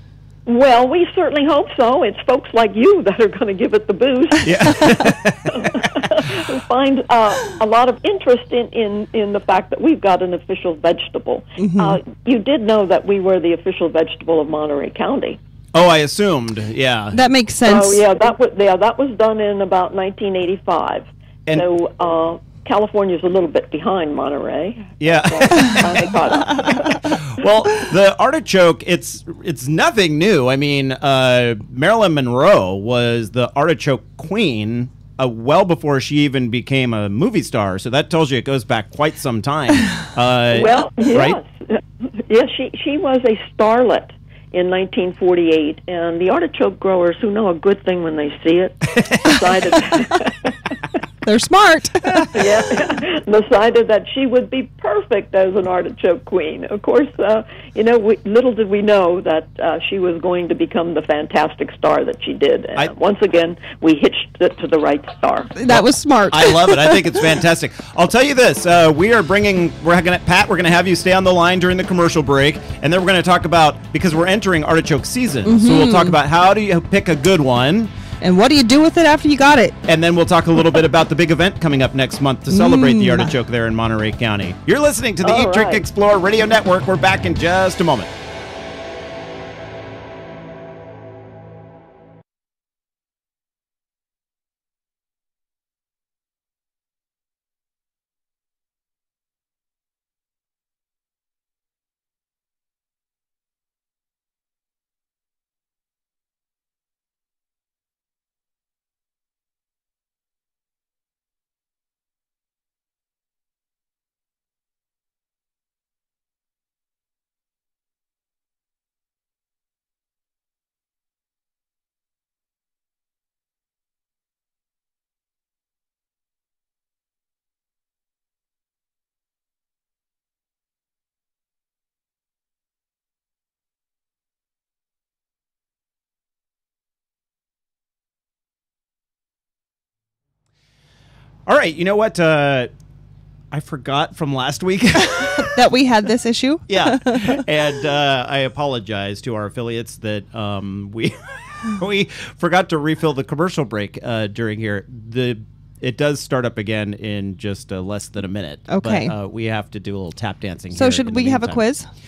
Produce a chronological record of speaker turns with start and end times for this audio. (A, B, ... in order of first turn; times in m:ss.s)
0:00.5-0:15.4 A
0:04.4-0:06.0 B
0:11.6-0:12.0 C
0:15.7-0:17.2 B
0:17.1-0:18.0 C
0:17.6-0:27.2 A
0:25.0-0:41.4 B
0:40.5-0:50.8 A
0:51.2-0:52.3 C
0:52.0-0:52.3 B
0:52.3-1:05.6 A
1:05.6-1:07.2 C
1:05.7-1:17.9 B
1:15.4-1:16.2 C
1:18.2-1:19.8 C
1:19.9-1:28.1 B
1:22.5-1:23.3 C
1:25.2-1:25.8 A
2:21.5-2:22.7 B
2:23.5-2:25.6 B
2:25.2-2:27.5 C
2:26.7-2:41.6 B
2:38.7-2:39.1 C
2:40.7-2:41.9 C